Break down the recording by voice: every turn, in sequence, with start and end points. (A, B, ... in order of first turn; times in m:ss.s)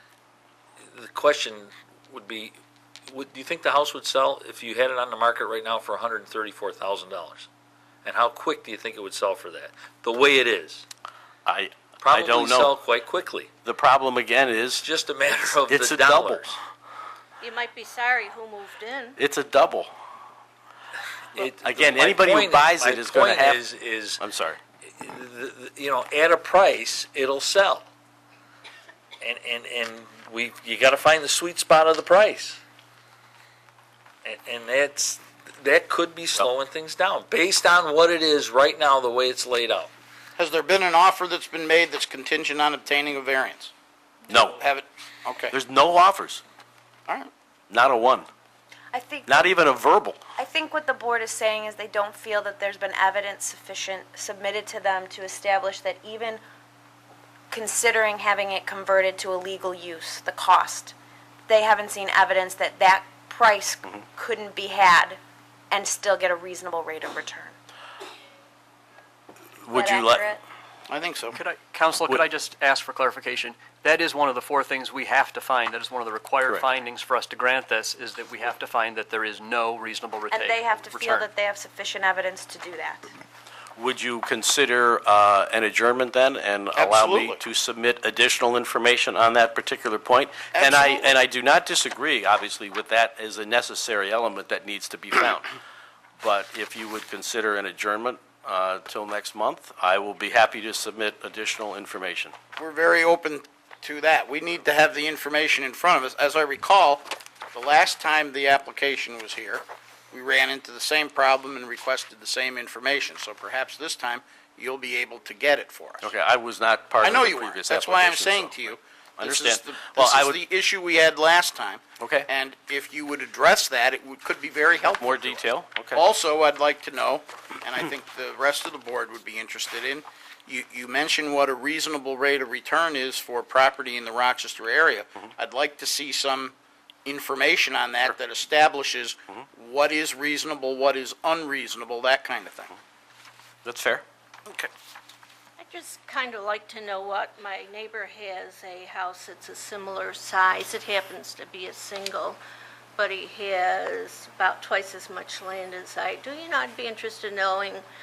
0:00.9-0:02.6 A
0:03.1-0:07.5 A
0:08.0-0:10.9 A
0:11.5-0:12.8 B
0:12.0-0:13.5 A
0:13.6-0:16.5 B
0:14.8-0:16.6 A
0:17.4-0:19.2 C
0:19.2-0:19.9 B
0:21.3-0:24.2 A
0:21.6-0:23.6 B
0:24.2-0:24.6 B
0:25.0-0:27.9 A
0:29.2-0:32.6 A
0:34.2-0:39.9 A
0:40.4-0:43.7 D
0:44.3-0:44.6 B
0:44.3-0:45.6 D
0:45.5-0:46.4 B
0:47.7-0:48.3 B
0:48.9-0:49.6 E
0:49.3-0:50.2 B
0:50.4-0:56.4 E
0:57.5-1:00.9 E
1:01.5-1:05.2 E
1:05.7-1:07.6 E
1:09.7-1:10.3 B
1:09.7-1:10.4 E
1:10.9-1:11.4 D
1:11.3-1:21.3 F
1:20.3-1:23.1 E
1:23.8-1:35.5 B
1:26.8-1:27.4 D
1:30.5-1:31.1 D
1:36.2-1:42.3 B
1:42.6-1:56.1 D
1:56.0-2:00.4 B
1:57.0-2:22.7 D
2:02.0-2:02.3 B
2:05.0-2:06.0 B
2:23.6-2:24.0 B
2:25.6-2:32.4 C
2:33.0-2:37.8 C